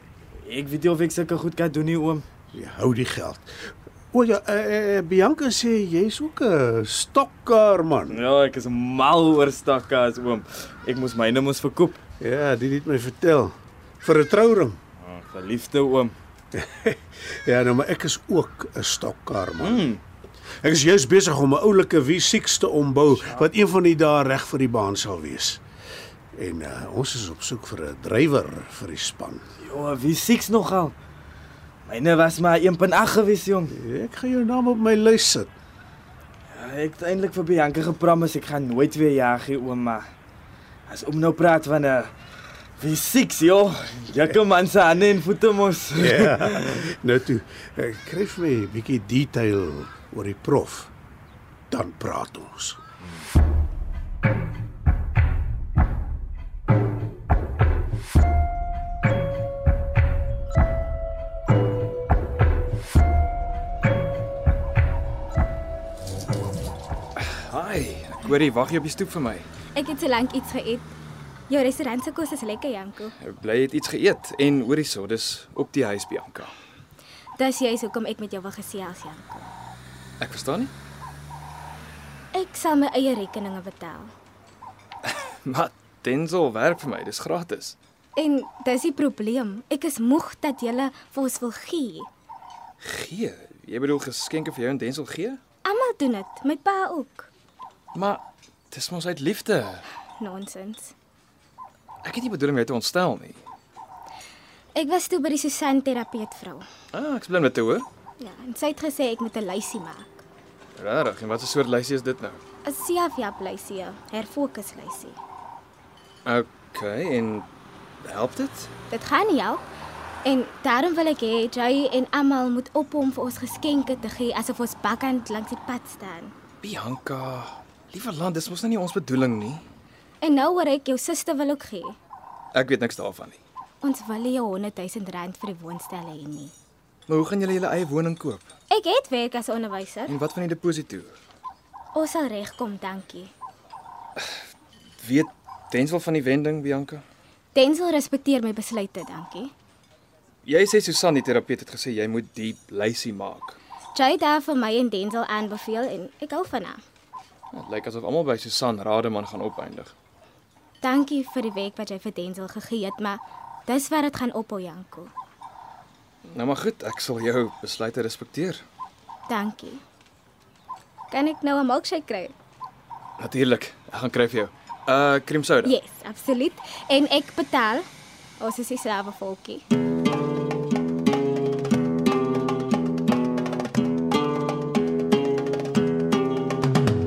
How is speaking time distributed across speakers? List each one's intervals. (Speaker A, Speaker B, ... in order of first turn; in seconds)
Speaker A: 0.4-2.2, 8.1-12.0, 15.0-16.1, 19.6-20.0, 29.6-30.9, 31.9-33.7, 36.5-40.0, 40.9-42.1, 42.8-46.7
Speaker B: 2.5-3.5, 4.1-8.2, 12.2-14.8, 16.5-19.9, 20.6-25.6, 26.4-29.4, 33.7-35.5, 46.0-50.9, 51.7-52.8
Speaker C: 67.2-69.5, 73.2-76.5, 80.2-80.7, 85.4-87.8, 92.8-95.4, 97.9-99.8, 102.0-103.4, 106.9-107.8, 110.8-112.4, 116.2-117.5, 118.0-118.7, 126.6-129.7, 132.5-133.4, 137.1-138.5, 140.1-141.1, 145.0-147.0, 150.4-153.6, 157.5-159.9, 166.2-168.6, 173.2-175.7
Speaker D: 69.7-70.9, 71.5-73.1, 77.4-79.5, 82.3-84.1, 88.2-92.1, 95.6-97.3, 100.2-100.9, 104.8-106.7, 108.2-110.2, 112.6-115.2, 118.9-119.6, 120.2-126.3, 130.2-132.0, 133.8-136.5, 138.7-140.1, 141.9-143.3, 147.5-149.5, 153.9-156.8, 160.8-165.1, 169.3-169.8, 171.1-172.3, 175.6-177.8, 178.4-179.6